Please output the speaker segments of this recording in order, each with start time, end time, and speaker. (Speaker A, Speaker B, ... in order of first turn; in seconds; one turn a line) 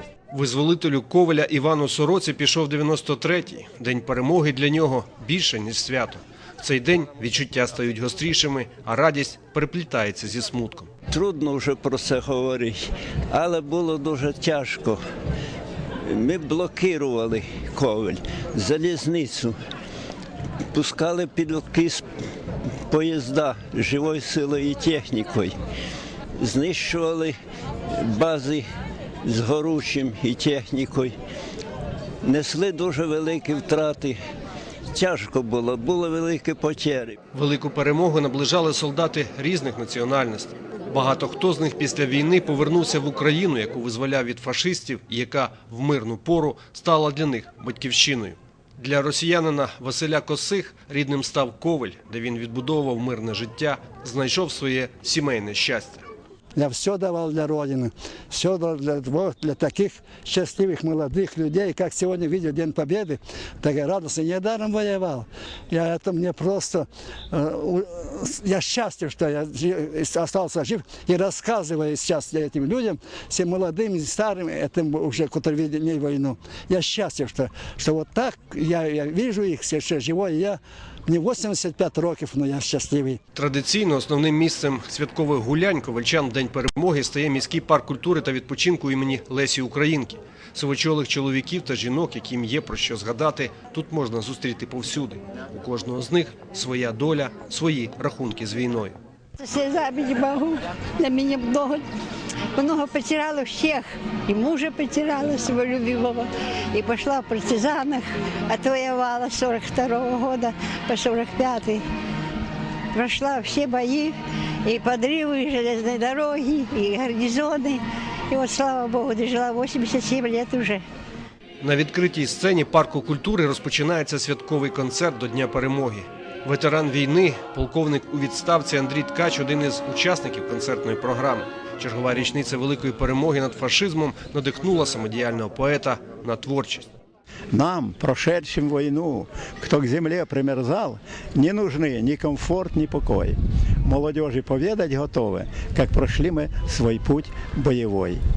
Speaker A: 0.3-10.9
Speaker B: 11.1-15.0
Speaker B: 16.0-19.5
Speaker B: 20.7-22.0
Speaker B: 22.9-25.5
Speaker B: 26.4-27.4
Speaker B: 27.9-28.7
Speaker B: 29.2-31.1
Speaker B: 32.2-34.2
Speaker B: 34.9-37.2
Speaker A: 37.3-56.0
Speaker C: 56.5-83.2
Speaker A: 83.3-99.0
Speaker D: 99.4-101.8
Speaker D: 102.5-111.8
Speaker D: 112.9-120.8
Speaker A: 121.6-136.9
Speaker E: 137.5-148.2